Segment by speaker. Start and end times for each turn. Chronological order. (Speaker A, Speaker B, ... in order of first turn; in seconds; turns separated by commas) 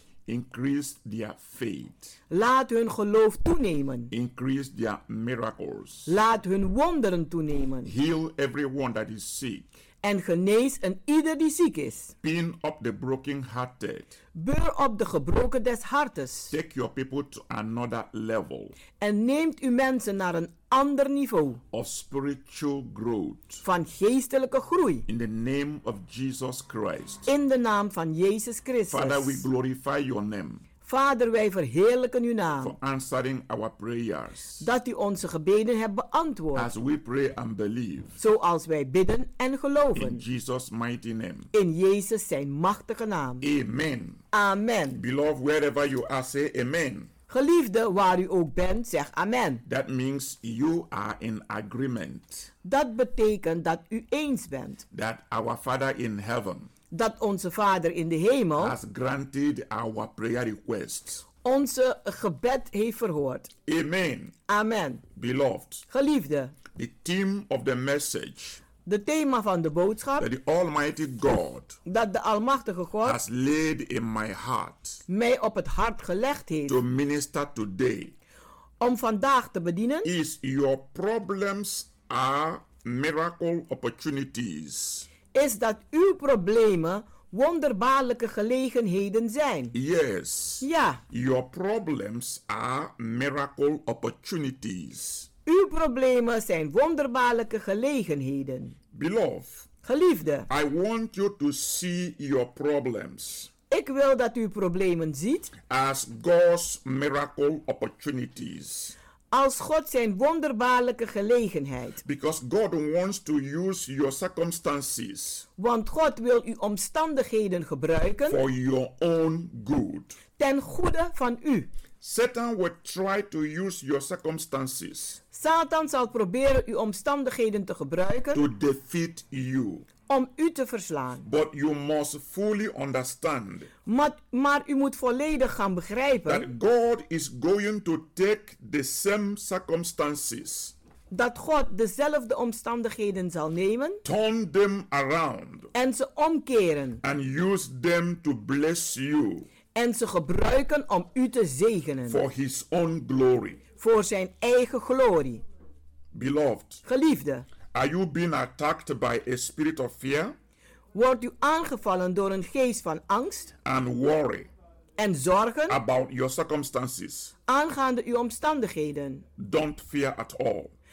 Speaker A: 0.3-2.1, Speaker B: 2.3-4.1, Speaker A: 4.1-6.1, Speaker B: 6.1-7.9, Speaker A: 7.8-9.7, Speaker B: 10.0-12.1, Speaker A: 12.2-14.1, Speaker B: 14.3-16.5, Speaker A: 16.5-18.8, Speaker B: 19.0-21.6, Speaker A: 21.7-23.6, Speaker B: 23.6-25.1, Speaker A: 25.1-27.3, Speaker B: 27.3-29.4, Speaker A: 28.9-30.6, Speaker B: 30.9-32.8, Speaker A: 32.6-34.6, Speaker B: 34.6-36.7, Speaker A: 36.5-38.2, Speaker B: 38.2-40.2, Speaker A: 40.0-41.5, Speaker B: 41.5-43.5, Speaker A: 43.4-44.2, Speaker B: 44.3-45.0, Speaker A: 45.0-47.1, Speaker B: 47.3-49.6, Speaker A: 49.7-52.5, Speaker B: 52.6-54.8, Speaker A: 54.9-56.7, Speaker B: 56.9-58.8, Speaker A: 58.6-61.3, Speaker B: 61.4-63.5, Speaker A: 63.7-64.3, Speaker B: 64.5-65.0, Speaker A: 65.2-65.9, Speaker B: 65.9-66.5, Speaker A: 66.7-68.6, Speaker B: 68.8-70.3, Speaker A: 70.2-71.8, Speaker B: 71.9-73.2, Speaker A: 73.0-75.0, Speaker B: 75.1-76.8, Speaker A: 76.7-78.2, Speaker B: 78.8-80.1, Speaker A: 80.0-85.1, Speaker B: 85.3-89.7, Speaker A: 89.7-95.3, Speaker B: 90.6-91.0, Speaker B: 95.5-98.8, Speaker A: 98.9-99.7, Speaker B: 99.8-100.5, Speaker A: 100.5-103.5, Speaker B: 103.7-105.5, Speaker A: 105.7-109.0, Speaker B: 109.3-112.0, Speaker A: 112.0-115.5, Speaker B: 115.6-118.4, Speaker A: 118.3-120.2, Speaker B: 120.4-121.7, Speaker A: 122.0-125.2, Speaker B: 125.3-128.4, Speaker A: 128.3-129.9, Speaker B: 130.1-131.2, Speaker A: 131.2-133.7, Speaker B: 133.9-136.5, Speaker A: 136.3-140.7, Speaker B: 141.1-144.0, Speaker A: 144.0-145.7, Speaker B: 145.7-147.0, Speaker A: 147.0-149.5, Speaker B: 149.7-152.2, Speaker A: 152.1-153.6, Speaker B: 153.8-155.4, Speaker A: 156.1-156.8, Speaker B: 156.9-157.5, Speaker A: 157.7-160.4, Speaker B: 160.9-163.5, Speaker A: 163.7-164.5, Speaker B: 165.0-165.8, Speaker A: 165.7-167.3, Speaker B: 167.5-169.2, Speaker A: 169.4-170.7